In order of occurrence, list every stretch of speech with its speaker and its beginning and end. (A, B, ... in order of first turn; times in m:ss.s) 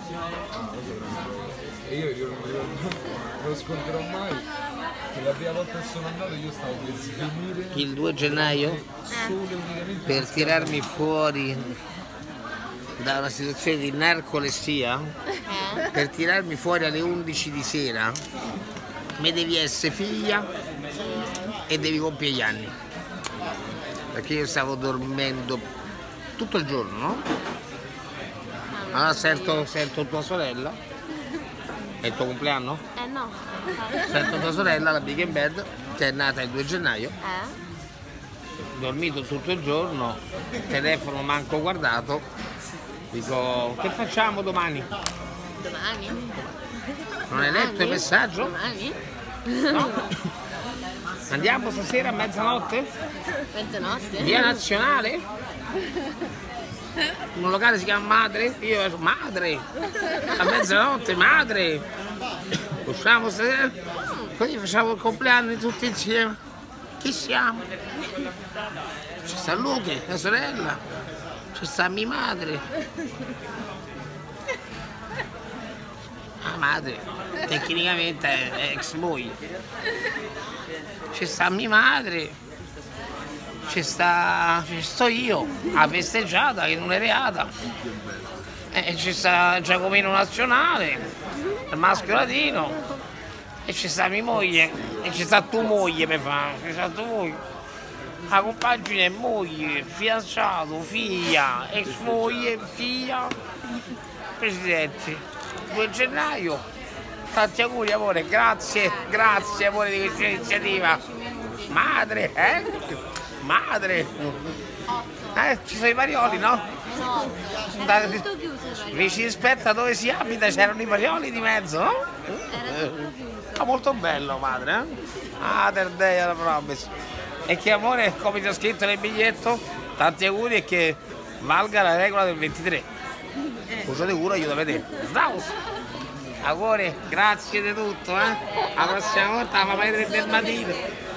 0:00.5-0:04.5 A
0:05.1-0:10.9 A
0:07.7-0:08.8 B
0:09.1-0:09.3 C
0:10.1-0:11.7 B
0:13.0-0:15.1 B
0:15.4-0:15.8 C
0:15.8-0:18.2 B
0:19.2-0:20.5 B
0:21.7-0:22.7 B
0:24.1-0:25.6 B
0:26.4-0:27.2 B
0:28.7-0:29.7 C
0:28.9-0:30.8 B
0:32.0-0:32.8 B
0:33.0-0:34.5 C
0:34.0-0:37.2 B
0:37.2-0:37.6 C
0:38.7-0:42.2 B
0:43.1-0:44.9 B
0:45.6-0:46.5 C
0:47.3-0:48.6 B
0:47.3-0:50.0 C
0:49.7-0:50.1 B
0:51.3-0:52.9 B
0:53.5-0:54.6 C
0:54.2-0:55.2 B
0:57.3-0:59.6 B
1:00.2-1:01.8 B
1:02.8-1:03.7 B
1:04.3-1:06.4 B
1:07.0-1:07.6 B
1:09.2-1:10.8 B
1:11.5-1:12.6 B
1:16.4-1:19.4 B
1:21.1-1:22.4 B
1:23.7-1:27.5 B
1:28.7-1:31.1 B
1:31.7-1:32.8 B
1:33.6-1:37.4 B
1:38.3-1:43.3 B
1:44.4-1:46.6 B
1:47.3-1:51.0 B
1:48.7-1:51.8 C
1:51.7-1:54.4 B
1:55.3-1:56.6 B
1:56.9-1:59.2 C
1:57.7-1:58.3 B
1:58.9-2:06.9 B
2:02.5-2:03.6 C
2:07.5-2:12.8 B
2:13.8-2:15.5 B
2:16.4-2:20.8 B